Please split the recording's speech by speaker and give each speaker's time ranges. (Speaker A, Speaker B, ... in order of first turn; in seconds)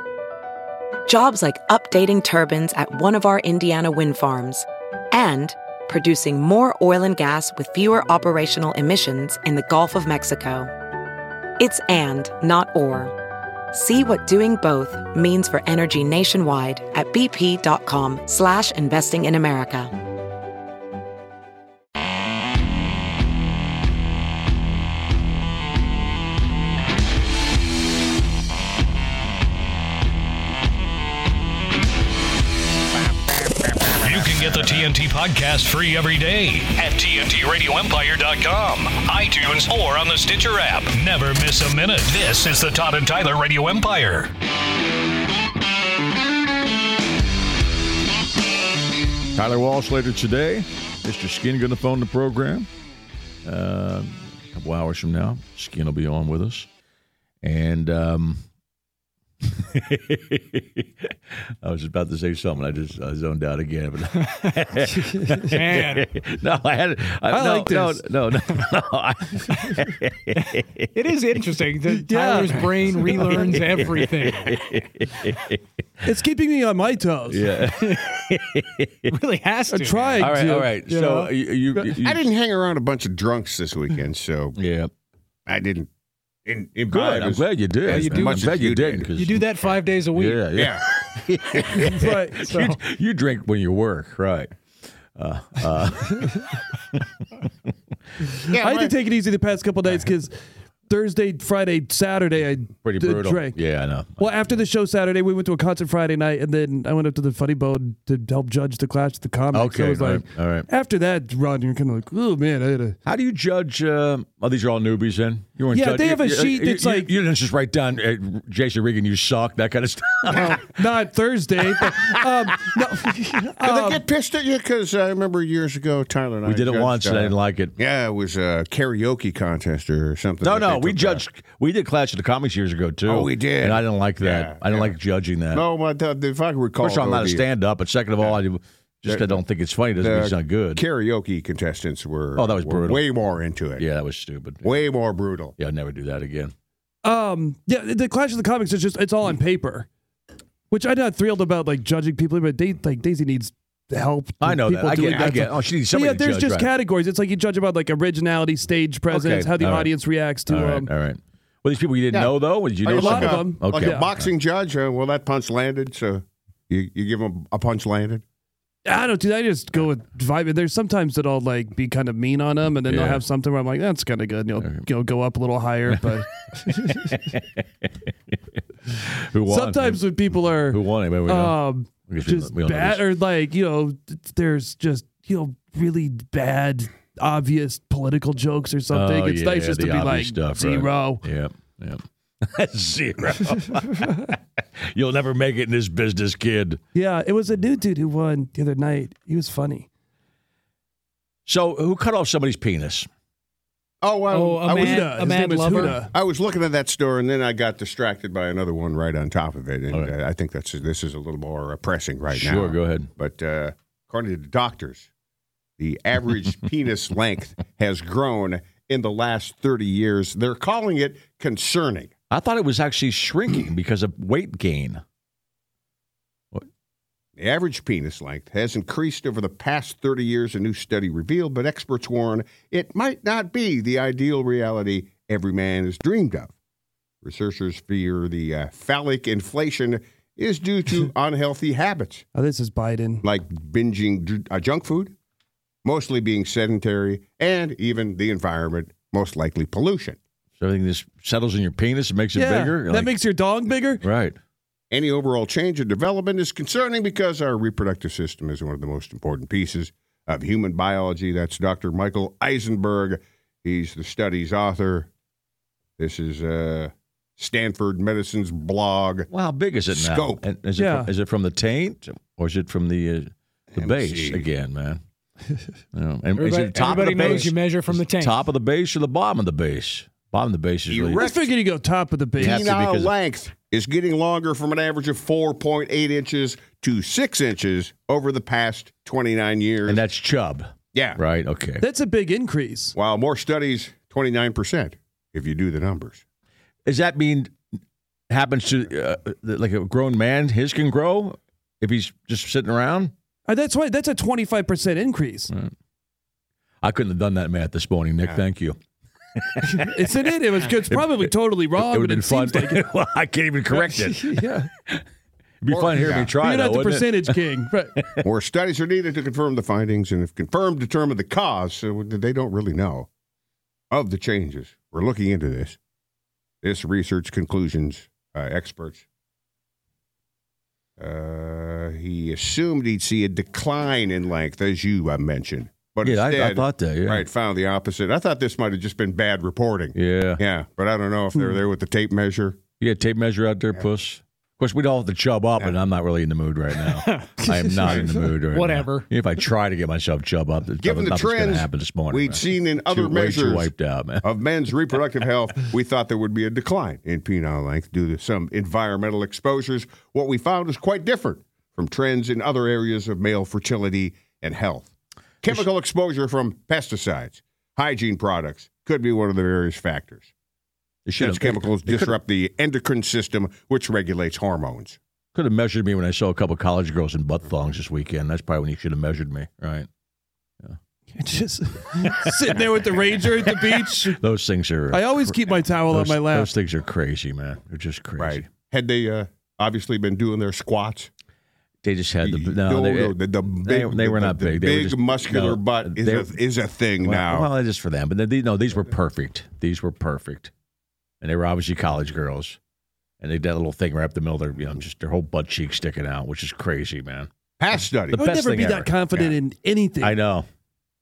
Speaker A: 1.1-10.7, 11.6-13.1, 13.7-19.9
Speaker B: 34.0-44.3
Speaker C: 49.3-52.7, 53.4-56.7, 57.4-58.4, 59.4-71.0, 73.1-75.6, 77.3-79.1, 80.2-82.2, 84.5-84.9, 86.9-94.5, 95.2-97.0, 102.8-104.6, 109.5-110.7, 113.0-120.7, 126.4-127.8, 130.4-135.7, 136.8-140.8, 142.3-143.1, 143.8-144.8, 145.6-146.5, 154.4-156.7, 159.1-164.3, 172.9-173.2, 174.6-174.8, 176.9-177.6, 179.1-183.1, 188.9-196.8, 201.5-203.1, 212.3-213.1, 222.3-225.0, 250.6-253.2, 254.0-254.3, 269.3-275.0, 275.9-281.2, 282.4-283.1, 289.9-291.8, 296.8-297.5, 298.3-303.1, 306.8-308.8, 309.4-309.9, 310.8-315.0, 315.6-317.4, 318.0-318.3, 336.0-337.2, 339.9-340.4, 342.8-354.2, 371.1-372.1, 375.3-379.9, 383.5-388.5, 391.8-396.3, 397.0-400.5, 401.2-402.6, 403.2-407.3, 408.1-408.9, 410.0-410.5
Speaker D: 65.5-66.1, 70.3-74.5, 77.7-78.0, 79.1-80.3, 80.9-81.3, 88.0-88.5, 89.1-90.5, 204.3-205.9, 276.3-278.5, 346.7-347.4, 348.5-349.1
Speaker E: 67.3-68.1, 71.9-73.9, 76.0-77.5, 79.7-81.0, 91.9-92.6, 98.3-100.3, 100.9-103.6, 104.2-113.0, 115.7-117.1, 120.3-124.0, 147.0-149.9, 150.7-160.9, 162.9-164.1, 168.8-177.2, 179.4-191.2, 196.9-199.9, 204.7-206.1, 242.3-243.2, 252.3-254.0, 270.8-271.1, 281.1-282.6, 291.8-292.9, 303.5-305.5, 309.6-312.8, 313.7-314.7, 316.0-317.9, 347.4-348.3, 381.1-384.2, 384.9-386.5, 408.1-410.2
Speaker F: 82.0-84.6, 85.5-85.9, 86.5-89.1, 90.5-90.8, 91.3-92.0, 98.5-98.9, 123.6-131.2, 133.1-135.0, 135.5-137.5, 139.0-139.4, 140.0-143.9, 144.6-145.5, 155.0-155.4, 162.1-168.2, 204.0-205.1, 205.8-215.1, 215.8-222.1, 227.4-236.5, 237.2-242.2, 243.2-245.1, 245.8-250.2, 254.9-265.1, 266.0-269.3, 269.9-270.4, 273.7-274.5, 280.9-281.5, 282.4-290.0, 290.9-291.2, 292.9-296.2, 315.7-316.3, 318.2-323.1, 323.9-325.8, 326.6-329.0, 331.0-342.6, 350.8-364.9, 365.4-370.3, 371.2-375.0, 388.2-391.1, 392.2-397.5, 407.6-408.2